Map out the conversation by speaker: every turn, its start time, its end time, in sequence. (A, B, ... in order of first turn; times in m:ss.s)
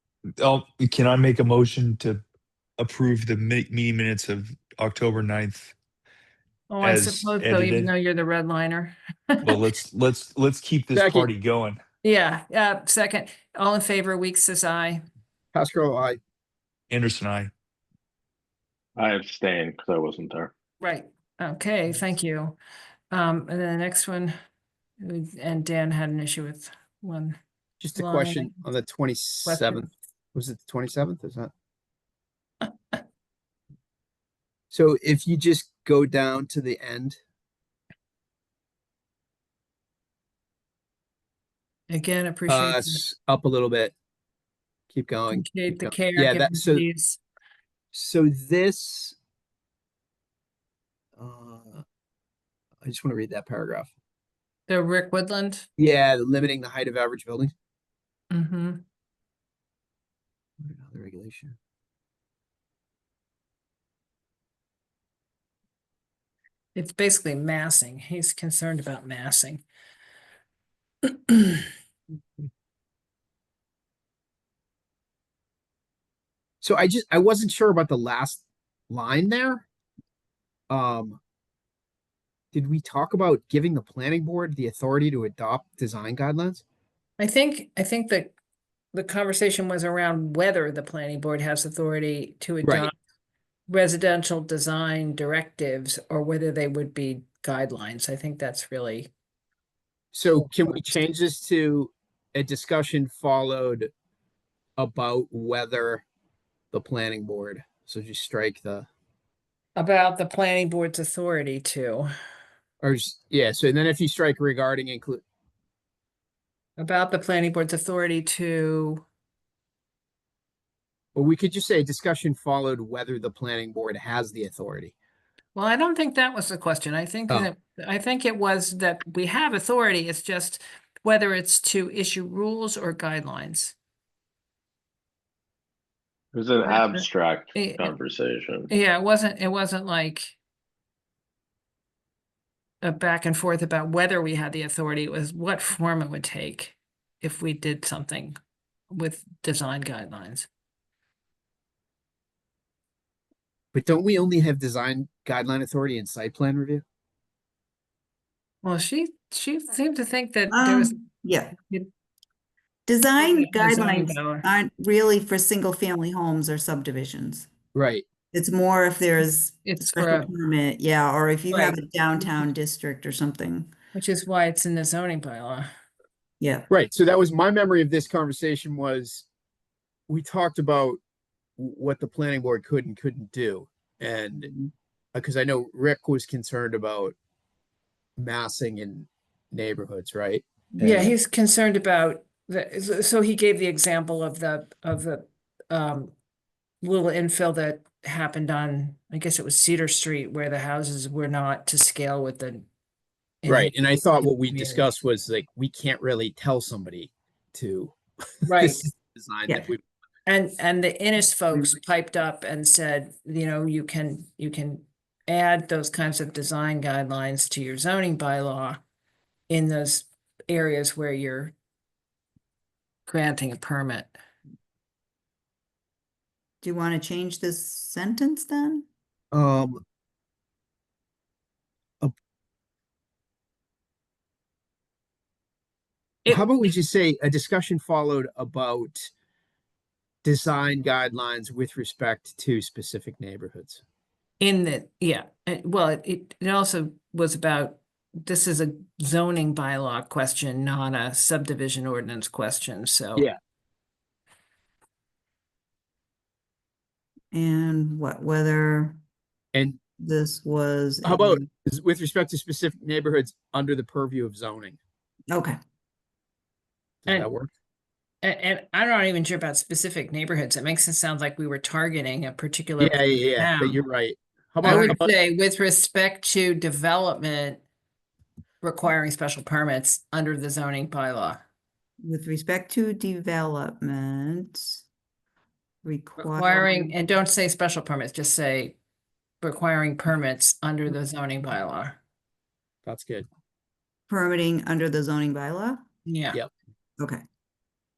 0:00.4-0:02.2 A
0:02.8-0:05.8 A
0:06.7-0:09.6 B
0:06.8-0:07.9 A
0:09.4-0:11.8 A
0:10.9-0:11.3 C
0:12.0-0:15.0 B
0:15.5-0:16.2 C
0:16.9-0:17.5 A
0:19.0-0:20.5 D
0:20.8-0:22.6 B
0:23.1-0:24.3 B
0:25.0-0:27.4 B
0:27.8-0:31.5 C
0:27.9-0:28.6 B
0:29.4-0:29.9 B
0:32.6-0:33.0 B
0:34.7-0:37.2 C
0:41.9-0:43.0 B
0:42.5-0:43.9 C
0:44.9-0:46.8 C
0:45.3-0:47.2 B
0:47.9-0:49.1 C
0:51.2-0:51.8 C
0:52.8-0:53.9 C
0:54.7-0:55.7 B
0:55.8-0:57.5 C
0:58.3-0:58.8 B
1:00.6-1:01.6 C
1:06.7-1:09.6 B
1:11.1-1:11.7 B
1:16.6-1:19.6 C
1:20.7-1:21.2 C
1:22.5-1:26.6 C
1:27.2-1:28.3 B
1:28.9-1:32.9 B
1:32.6-1:32.9 C
1:33.7-1:39.1 B
1:40.1-1:43.9 C
1:44.8-1:46.0 C
1:46.7-1:48.9 C
1:49.8-1:52.1 B
1:52.8-1:55.2 C
1:56.8-1:59.0 B
2:01.1-2:04.9 C
2:05.5-2:13.8 B
2:16.3-2:18.7 D
2:16.6-2:17.9 B
2:18.7-2:20.4 B
2:22.8-2:28.4 B
2:28.9-2:30.5 B
2:33.7-2:36.8 C
2:38.6-2:41.0 B
2:40.5-2:41.5 E
2:41.5-2:41.9 B
2:42.8-2:47.5 E
2:43.2-2:44.4 B
2:47.7-2:48.0 C
2:48.3-2:53.7 E
2:49.6-2:50.3 B
2:51.5-2:52.5 B
2:53.9-2:55.7 B
2:56.4-2:56.7 E
2:56.7-2:59.3 C
3:00.1-3:01.0 C
3:01.6-3:04.6 C
3:05.1-3:07.1 C
3:08.2-3:11.0 C
3:10.7-3:11.1 E
3:10.8-3:16.1 B
3:16.8-3:22.7 B
3:23.4-3:24.8 B
3:23.4-3:29.8 C
3:28.5-3:28.9 B
3:30.2-3:38.8 B
3:39.5-3:41.5 B
3:43.0-3:44.2 B
3:46.6-3:48.8 E
3:49.3-3:49.8 C
3:56.3-3:59.1 C
4:00.2-4:03.8 C
4:04.4-4:13.3 B
4:17.3-4:19.0 E
4:19.5-4:19.8 C
4:20.0-4:21.5 E
4:21.0-4:24.8 C
4:25.3-4:25.6 E
4:27.0-4:27.5 C
4:28.2-4:33.8 B
4:32.8-4:35.1 C
4:34.6-4:37.6 B
4:38.6-4:41.4 B
4:42.0-4:44.8 E
4:45.8-4:47.0 E
4:46.2-4:48.8 B
4:49.4-4:52.0 B
4:52.8-4:53.3 C
4:54.1-4:55.8 E
4:56.0-4:56.4 B